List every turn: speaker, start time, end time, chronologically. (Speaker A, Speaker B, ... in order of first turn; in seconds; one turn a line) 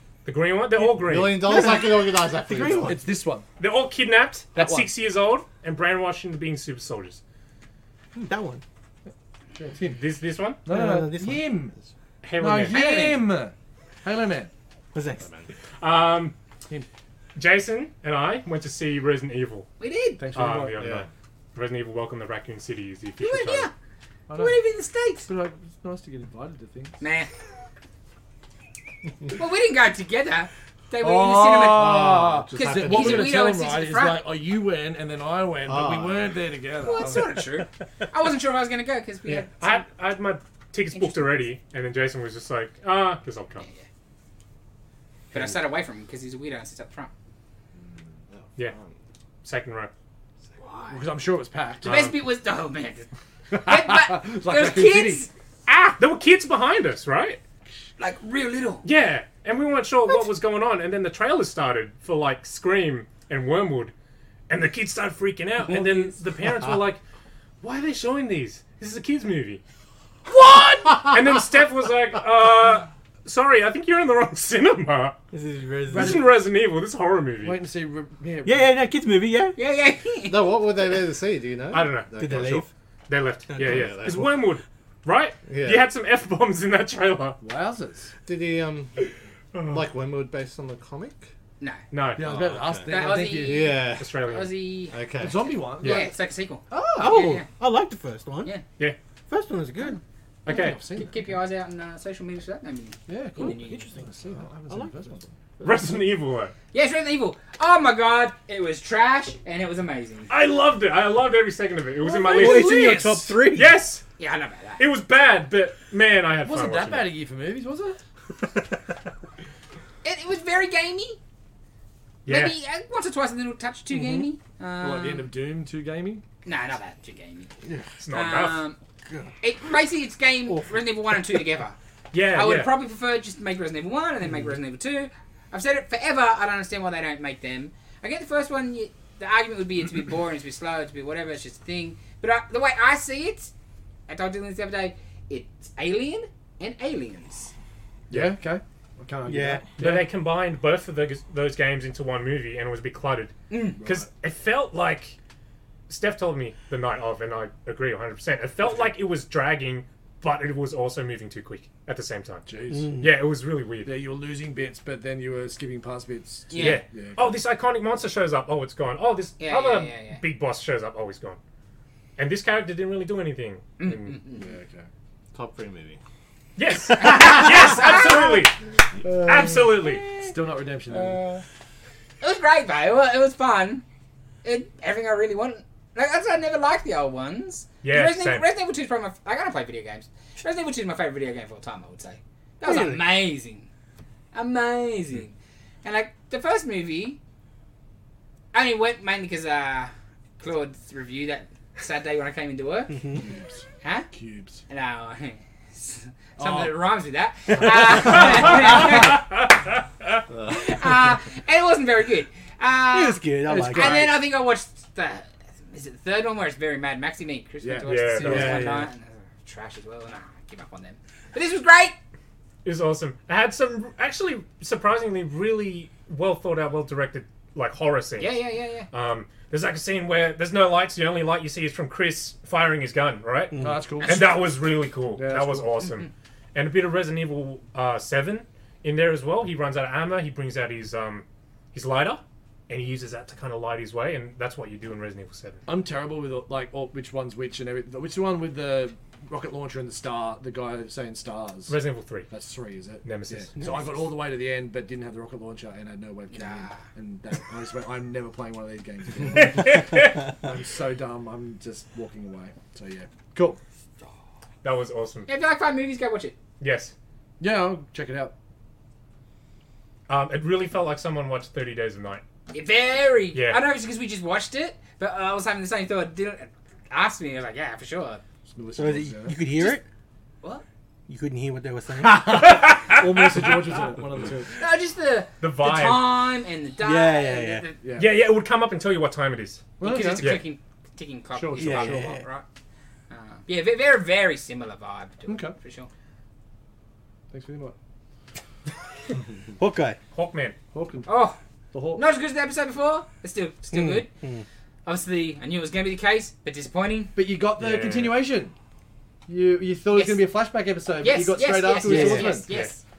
Speaker A: 0.2-1.5
Speaker B: 0.9-3.0
Speaker C: 1.4-3.0
Speaker D: 2.5-3.5
Speaker A: 3.6-7.2
Speaker D: 4.5-4.9
Speaker C: 8.1-8.6
Speaker D: 9.6-10.0
Speaker A: 9.9-10.6
Speaker D: 10.6-11.8
Speaker C: 10.7-11.5
Speaker A: 12.2-12.8
Speaker D: 12.4-14.5
Speaker E: 12.6-13.2
Speaker C: 14.9-15.2
Speaker B: 15.2-15.5
Speaker A: 15.8-16.3
Speaker A: 17.4-19.7
Speaker E: 19.8-20.2
Speaker D: 20.2-20.8
Speaker A: 20.3-23.7
Speaker B: 20.8-21.1
Speaker E: 23.2-23.7
Speaker D: 24.3-24.6
Speaker E: 24.3-25.3
Speaker D: 25.2-27.0
Speaker E: 27.0-27.3
Speaker E: 29.3-32.0
Speaker D: 31.0-37.4
Speaker B: 31.7-33.4
Speaker E: 32.5-34.2
Speaker B: 35.6-36.4
Speaker E: 36.8-39.8
Speaker A: 39.2-43.7
Speaker E: 40.9-41.3
Speaker E: 45.3-47.1
Speaker B: 48.3-49.0
Speaker A: 49.4-49.9
Speaker E: 50.6-51.0
Speaker D: 50.9-52.1
Speaker E: 51.8-56.0
Speaker A: 51.8-52.1
Speaker D: 53.5-55.2
Speaker A: 56.0-57.4
Speaker E: 58.0-58.8
Speaker A: 58.8-63.9
Speaker A: 64.5-67.0
Speaker A: 67.6-69.6
Speaker A: 71.0-75.2
Speaker C: 75.3-76.2
Speaker A: 75.9-77.6
Speaker D: 75.9-76.2
Speaker D: 77.4-78.7
Speaker C: 78.4-79.6
Speaker E: 79.5-80.4
Speaker B: 80.2-82.6
Speaker A: 81.7-87.4
Speaker C: 82.2-82.7
Speaker C: 83.5-84.0
Speaker B: 83.6-84.3
Speaker B: 85.5-85.8
Speaker D: 87.4-88.1
Speaker B: 88.2-89.0
Speaker A: 89.5-89.8
Speaker B: 89.7-91.3
Speaker A: 91.9-92.3
Speaker D: 92.2-93.7
Speaker B: 92.2-94.2
Speaker E: 92.9-94.9
Speaker A: 93.9-94.5
Speaker B: 94.9-95.5
Speaker D: 95.2-96.1
Speaker E: 95.8-97.5
Speaker D: 96.7-97.3
Speaker C: 97.0-98.5
Speaker C: 99.3-100.0
Speaker A: 100.4-100.8
Speaker D: 100.5-101.4
Speaker E: 100.7-103.9
Speaker D: 103.1-105.3
Speaker C: 104.7-105.0
Speaker A: 105.6-106.5
Speaker E: 106.7-110.3
Speaker A: 110.3-112.9
Speaker C: 112.2-113.8
Speaker D: 112.3-113.3
Speaker A: 113.5-114.0
Speaker E: 114.2-114.8
Speaker A: 114.8-117.1
Speaker D: 116.4-118.0
Speaker E: 120.0-121.2
Speaker A: 122.2-122.5
Speaker E: 122.2-125.3
Speaker C: 123.9-124.3
Speaker D: 124.8-126.2
Speaker E: 126.4-127.5
Speaker A: 128.0-128.6
Speaker E: 128.1-128.8
Speaker C: 129.1-129.3
Speaker E: 129.4-131.8
Speaker A: 132.1-132.7
Speaker E: 132.3-143.5
Speaker E: 144.1-147.5
Speaker D: 148.1-150.0
Speaker C: 149.2-149.6
Speaker A: 149.8-155.2
Speaker E: 153.5-153.8
Speaker D: 153.8-154.1
Speaker A: 155.9-163.9
Speaker D: 162.4-163.0
Speaker C: 162.7-163.1
Speaker D: 163.8-167.4
Speaker E: 166.5-166.8
Speaker A: 166.6-171.4
Speaker E: 169.4-170.2
Speaker A: 172.2-174.2
Speaker E: 173.8-174.5
Speaker D: 174.3-174.9
Speaker B: 175.3-176.0
Speaker A: 176.6-180.1
Speaker E: 177.0-178.4
Speaker D: 179.1-179.6
Speaker E: 179.8-180.3
Speaker D: 180.1-181.3
Speaker E: 182.2-183.8
Speaker E: 184.4-193.7
Speaker A: 187.8-188.4
Speaker C: 192.6-193.1
Speaker E: 194.3-197.2
Speaker E: 198.5-203.1
Speaker D: 203.2-204.6
Speaker E: 203.8-204.1
Speaker E: 204.7-209.2
Speaker D: 206.4-206.7
Speaker A: 208.1-209.7
Speaker B: 210.3-210.7
Speaker E: 210.3-221.9
Speaker C: 212.9-214.1
Speaker D: 213.5-214.1
Speaker D: 217.6-218.8
Speaker A: 217.8-218.6
Speaker B: 218.2-218.7
Speaker A: 222.6-245.6
Speaker E: 228.2-228.9
Speaker C: 233.5-233.8
Speaker D: 233.6-234.5
Speaker D: 235.1-235.8
Speaker E: 235.8-236.1
Speaker D: 245.7-251.8
Speaker A: 251.7-252.3
Speaker D: 252.3-263.6
Speaker A: 253.0-253.7
Speaker C: 253.6-253.9
Speaker E: 256.3-256.8
Speaker A: 259.3-260.2
Speaker A: 264.6-265.3
Speaker E: 265.3-266.4
Speaker A: 266.6-266.9
Speaker D: 267.4-268.3
Speaker A: 270.1-272.2
Speaker E: 272.5-278.2
Speaker A: 273.3-273.6
Speaker D: 278.5-279.4
Speaker C: 278.8-279.8
Speaker C: 281.1-282.5
Speaker A: 282.0-283.5
Speaker D: 282.2-284.6
Speaker E: 284.6-287.8
Speaker A: 285.4-286.1
Speaker C: 286.8-287.6
Speaker D: 287.8-288.1
Speaker A: 287.9-290.4
Speaker D: 289.8-290.4
Speaker E: 289.8-292.4
Speaker D: 291.4-292.1
Speaker C: 291.6-292.2
Speaker E: 293.1-295.9
Speaker D: 295.3-295.6
Speaker D: 297.3-297.8
Speaker C: 299.6-300.0
Speaker A: 300.1-300.6
Speaker D: 300.7-301.1
Speaker E: 301.1-301.4
Speaker D: 301.7-302.0
Speaker E: 301.9-304.1
Speaker C: 303.7-304.4
Speaker E: 304.8-307.1
Speaker D: 307.1-308.5
Speaker A: 307.6-308.2
Speaker D: 309.3-312.5
Speaker E: 309.9-310.2
Speaker E: 311.0-312.8
Speaker C: 311.8-312.4